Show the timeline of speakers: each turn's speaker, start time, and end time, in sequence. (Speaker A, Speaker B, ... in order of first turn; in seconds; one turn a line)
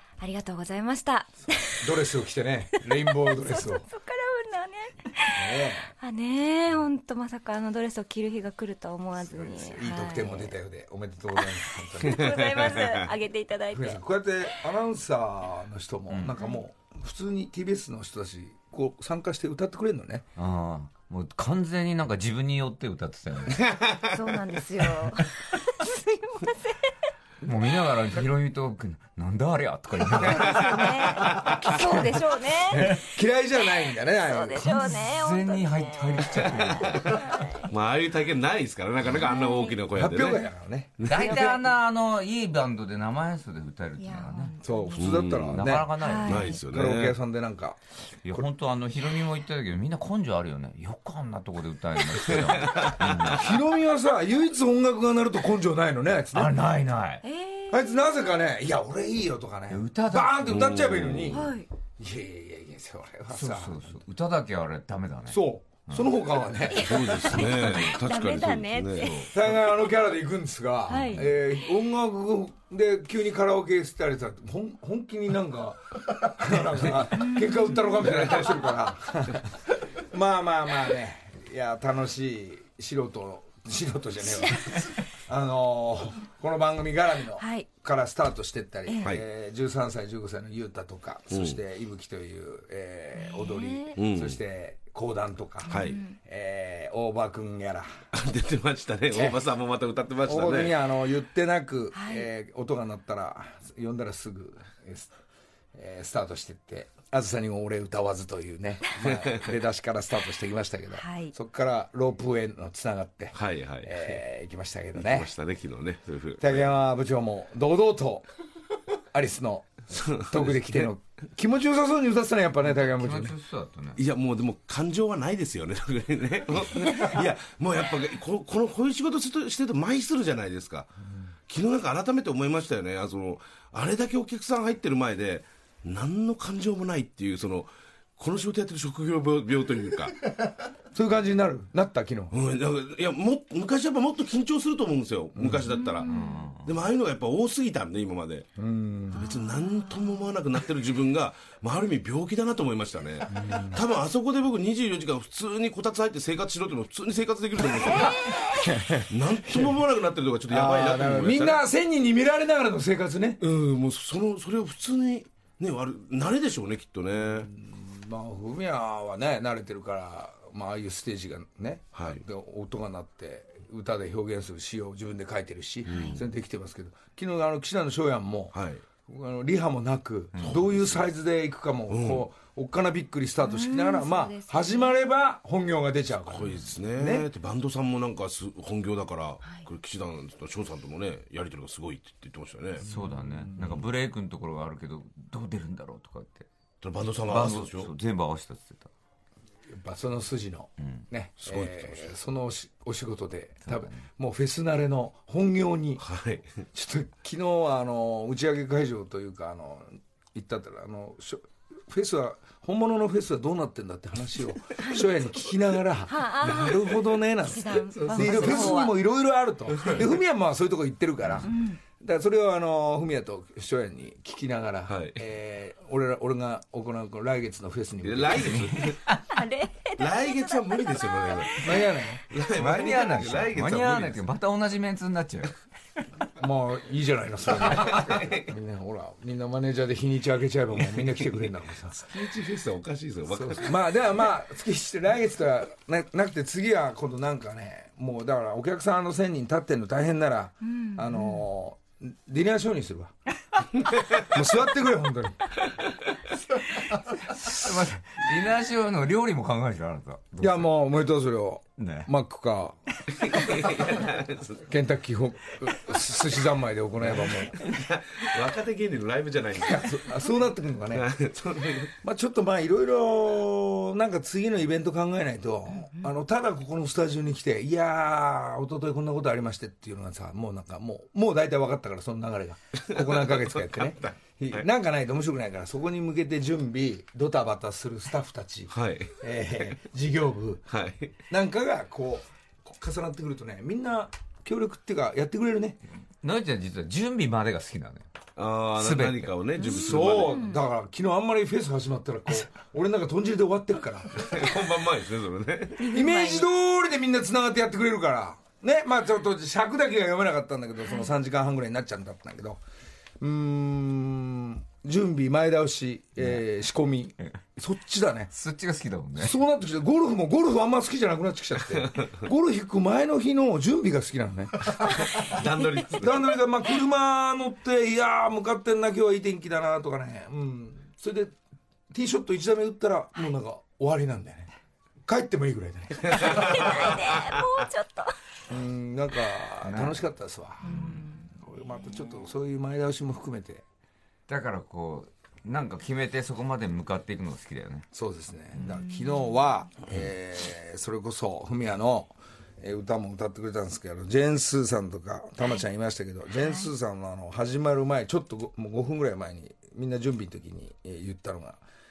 Speaker A: 0.2-1.9
Speaker B: 1.7-3.9
Speaker A: 2.9-10.5
Speaker B: 5.3-5.9
Speaker B: 9.6-12.6
Speaker A: 11.3-14.0
Speaker C: 12.2-12.9
Speaker B: 13.7-20.3
Speaker D: 16.1-16.4
Speaker D: 20.4-23.7
Speaker A: 24.1-27.1
Speaker D: 24.9-25.2
Speaker D: 27.4-31.1
Speaker A: 30.2-33.0
Speaker B: 31.8-34.7
Speaker D: 31.8-32.1
Speaker A: 33.6-37.7
Speaker D: 34.5-37.5
Speaker C: 37.7-40.5
Speaker A: 39.1-39.8
Speaker B: 39.9-41.0
Speaker C: 41.0-41.4
Speaker D: 41.0-44.6
Speaker A: 41.1-41.6
Speaker A: 44.0-45.2
Speaker B: 44.6-47.8
Speaker C: 45.0-45.7
Speaker D: 45.4-46.6
Speaker A: 46.0-46.6
Speaker C: 46.2-47.2
Speaker D: 48.2-53.5
Speaker C: 52.4-53.3
Speaker B: 53.2-56.6
Speaker D: 56.3-57.2
Speaker A: 57.2-58.4
Speaker B: 57.7-61.4
Speaker D: 59.7-60.7
Speaker C: 60.5-61.5
Speaker A: 61.3-61.7
Speaker B: 62.0-63.8
Speaker D: 63.3-66.1
Speaker B: 65.3-67.4
Speaker A: 66.7-69.3
Speaker C: 66.8-69.2
Speaker D: 69.0-69.3
Speaker B: 69.3-79.6
Speaker A: 70.9-71.4
Speaker A: 77.2-78.2
Speaker B: 80.1-97.9
Speaker A: 87.4-87.7
Speaker A: 88.8-89.1
Speaker C: 91.3-91.6
Speaker A: 93.2-93.9
Speaker C: 94.0-94.4
Speaker A: 95.7-96.1
Speaker C: 95.7-96.0
Speaker C: 98.1-100.7
Speaker B: 100.2-105.1
Speaker A: 101.9-102.3
Speaker B: 105.7-115.3
Speaker C: 109.1-109.4
Speaker A: 110.9-111.3
Speaker C: 113.3-114.2
Speaker C: 114.9-116.7
Speaker B: 116.4-118.3
Speaker B: 119.1-123.3
Speaker C: 119.9-120.9
Speaker D: 122.7-124.0
Speaker C: 124.0-130.9
Speaker C: 131.5-140.1
Speaker B: 140.9-142.3
Speaker C: 142.3-146.1
Speaker B: 145.4-145.7
Speaker A: 145.7-146.5
Speaker D: 146.1-146.7
Speaker C: 146.6-148.5
Speaker B: 148.6-149.2
Speaker C: 149.1-158.2
Speaker A: 149.2-150.2
Speaker B: 153.3-153.8
Speaker B: 158.6-159.8
Speaker C: 159.1-161.6
Speaker B: 160.5-163.4
Speaker C: 163.4-167.5
Speaker B: 167.4-187.3
Speaker C: 171.9-172.2
Speaker A: 175.9-176.2
Speaker C: 175.9-176.2
Speaker C: 178.5-178.8
Speaker C: 180.4-181.0
Speaker C: 181.9-182.2
Speaker A: 183.4-185.0
Speaker C: 186.3-192.8
Speaker D: 192.8-196.4
Speaker B: 192.8-193.8
Speaker C: 196.8-197.9
Speaker D: 197.2-198.9
Speaker B: 199.7-206.0
Speaker C: 201.4-202.1
Speaker D: 203.7-204.0
Speaker C: 206.0-206.5
Speaker B: 206.7-228.7
Speaker A: 214.8-215.1
Speaker A: 216.1-219.0
Speaker C: 218.0-218.7
Speaker A: 221.4-221.8
Speaker C: 224.9-225.2
Speaker C: 228.0-228.9
Speaker A: 229.3-231.8
Speaker C: 230.0-231.7
Speaker B: 231.6-232.8
Speaker C: 232.3-234.2
Speaker D: 232.6-235.5
Speaker B: 236.4-242.0
Speaker C: 237.9-238.4
Speaker C: 242.0-243.8
Speaker B: 243.3-253.1
Speaker A: 250.7-251.4
Speaker B: 254.2-255.5
Speaker D: 257.1-260.7
Speaker B: 260.4-262.8
Speaker D: 261.8-262.1
Speaker C: 263.2-264.6
Speaker B: 264.6-267.6
Speaker C: 267.0-269.9
Speaker B: 269.6-271.1
Speaker C: 270.9-271.9
Speaker B: 272.0-290.7
Speaker C: 282.9-284.6
Speaker C: 288.7-289.1
Speaker C: 290.7-291.1
Speaker B: 291.3-295.8
Speaker D: 296.2-298.1
Speaker C: 298.4-300.4
Speaker D: 298.7-299.3
Speaker A: 299.6-300.6
Speaker B: 299.6-304.4
Speaker C: 304.2-305.8
Speaker A: 305.8-306.5
Speaker B: 305.9-312.6
Speaker B: 313.2-318.3
Speaker D: 318.3-319.3
Speaker B: 319.2-331.3
Speaker C: 324.8-326.1
Speaker B: 331.9-334.5
Speaker B: 335.1-337.1
Speaker A: 336.1-338.1
Speaker B: 338.5-343.6
Speaker D: 339.6-340.0
Speaker A: 340.6-341.1
Speaker D: 340.7-341.0
Speaker D: 344.3-347.9
Speaker B: 347.9-361.6
Speaker D: 348.6-348.8
Speaker A: 356.4-356.7